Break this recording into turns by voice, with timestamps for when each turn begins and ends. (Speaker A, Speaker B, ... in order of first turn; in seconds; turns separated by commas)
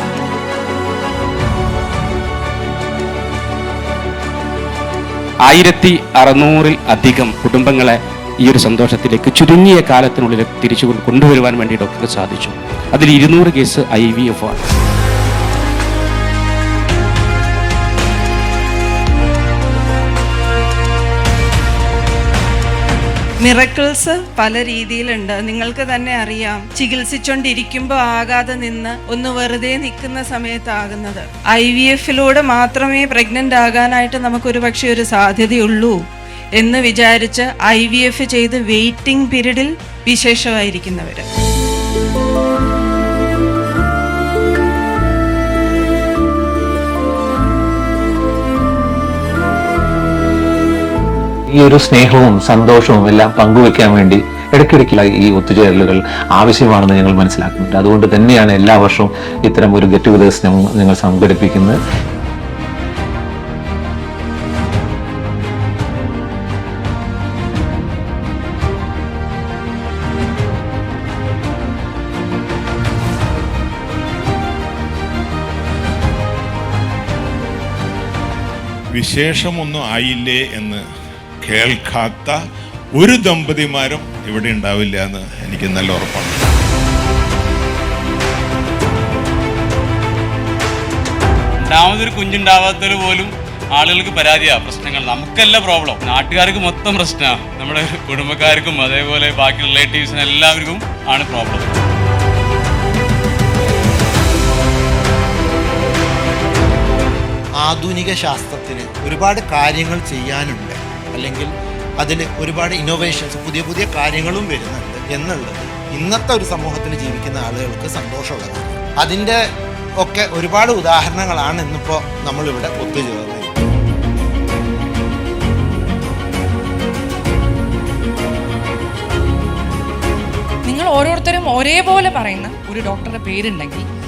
Speaker A: 5.5-14.6, Speaker B: 23.4-36.0, Speaker B: 36.6-41.3, Speaker C: 51.6-61.8, Speaker D: 78.9-80.8, Speaker D: 81.4-82.4, Speaker D: 83.0-86.4, Speaker E: 91.6-101.7, Speaker F: 107.6-111.5, Speaker F: 112.0-119.4, Speaker F: 120.0-123.5, Speaker G: 130.7-133.8